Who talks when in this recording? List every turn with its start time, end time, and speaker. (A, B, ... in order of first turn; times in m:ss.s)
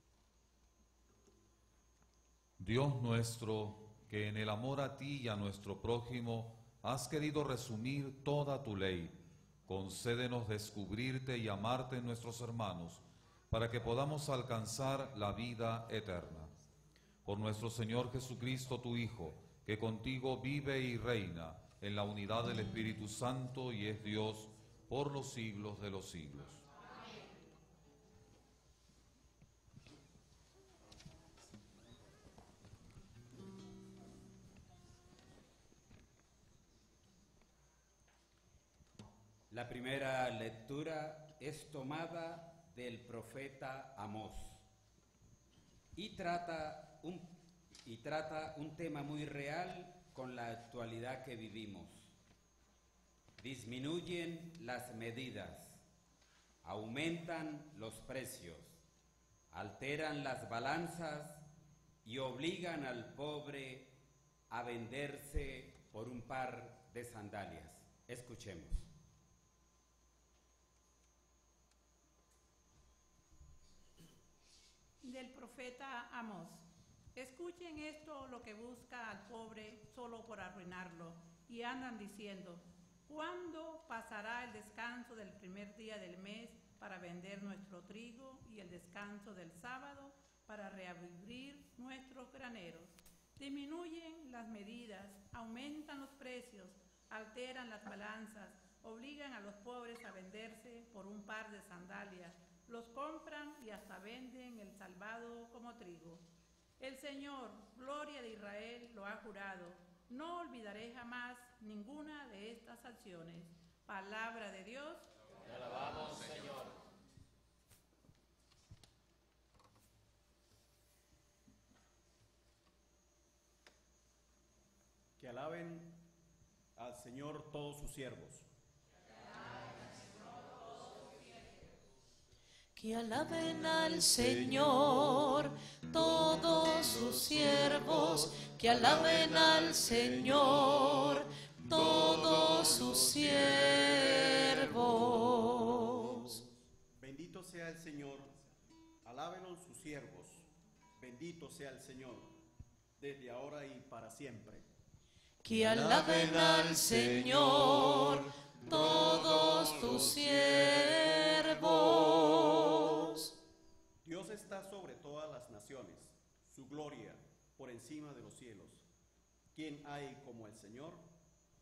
0:02.6-0:16.5 A
0:17.2-0:26.6 A
0:39.5-0:44.6 B
0:45.9-0:47.3 B
0:47.8-0:52.1 B
0:53.4-0:55.8 B
0:56.6-0:58.8 B
0:59.5-1:01.4 B
1:02.0-1:03.9 B
1:04.5-1:08.9 B
1:15.0-1:46.2 C
1:46.8-1:55.1 C
2:05.2-2:06.0 D
2:06.8-2:08.5 D
2:12.8-2:26.3 E
2:27.0-2:28.5 D
2:29.0-2:30.4 D
2:31.0-2:32.3 D
2:33.0-2:34.7 D
2:35.4-2:43.2 E
2:44.0-2:48.8 D
2:49.5-2:51.1 D